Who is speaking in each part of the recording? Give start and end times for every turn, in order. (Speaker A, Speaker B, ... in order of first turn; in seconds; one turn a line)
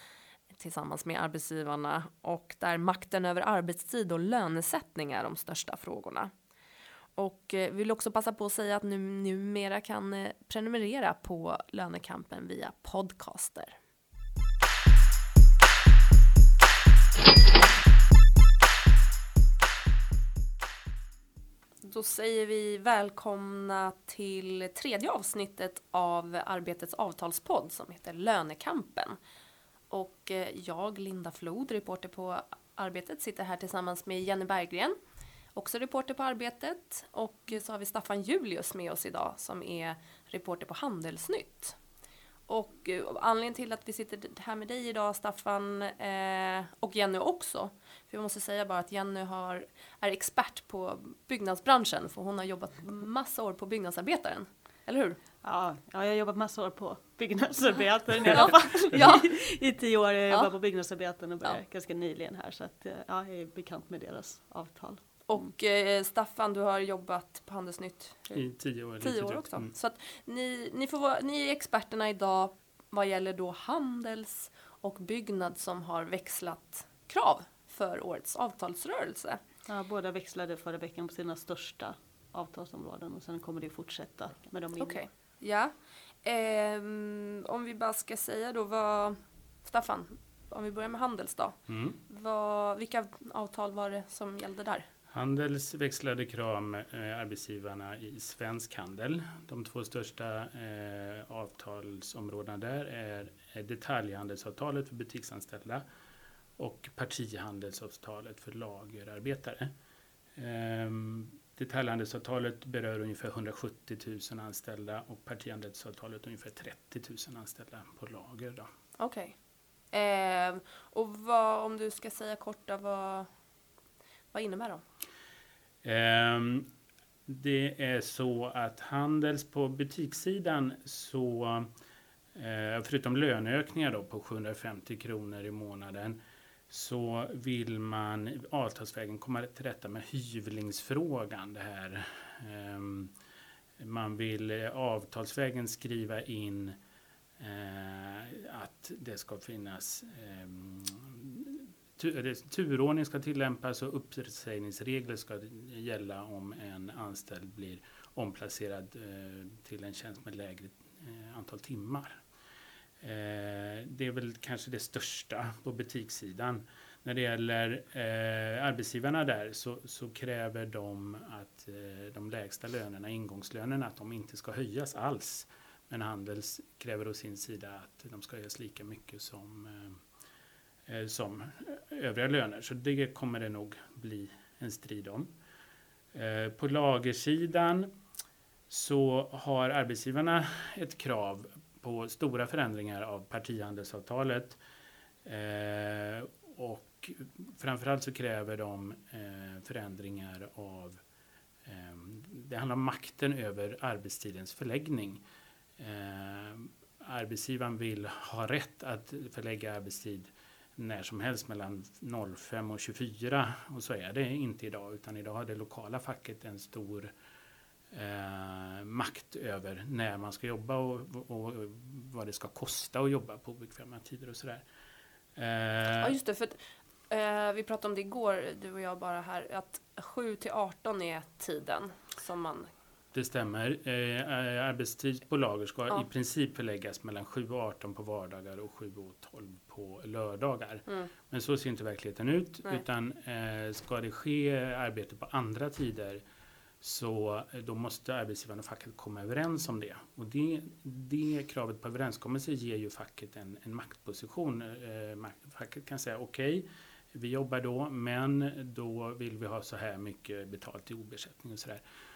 Speaker A: 0.5-6.3
Speaker A: 7.2-13.8
Speaker A: 21.8-29.2
Speaker A: 29.9-35.0
Speaker A: 35.5-41.8
Speaker A: 42.5-55.2
Speaker B: 55.4-65.0
Speaker A: 59.0-59.2
Speaker A: 65.3-79.4
Speaker C: 68.3-69.7
Speaker B: 79.7-85.0
Speaker A: 84.8-94.9
Speaker C: 91.7-92.0
Speaker C: 95.1-105.8
Speaker C: 106.6-109.7
Speaker C: 110.3-118.7
Speaker A: 119.0-119.4
Speaker A: 119.9-123.3
Speaker A: 124.3-124.8
Speaker C: 125.8-126.7
Speaker C: 127.3-131.7
Speaker C: 132.3-143.1
Speaker C: 143.8-146.8
Speaker C: 147.4-162.2
Speaker C: 163.0-180.0
Speaker C: 180.9-185.3
Speaker C: 186.1-187.9
Speaker C: 188.7-194.6
Speaker C: 195.2-201.0
Speaker C: 201.7-205.2
Speaker C: 205.8-217.1
Speaker C: 217.9-224.6
Speaker C: 225.4-226.2
Speaker A: 226.0-232.7
Speaker C: 233.1-246.2
Speaker C: 246.8-261.8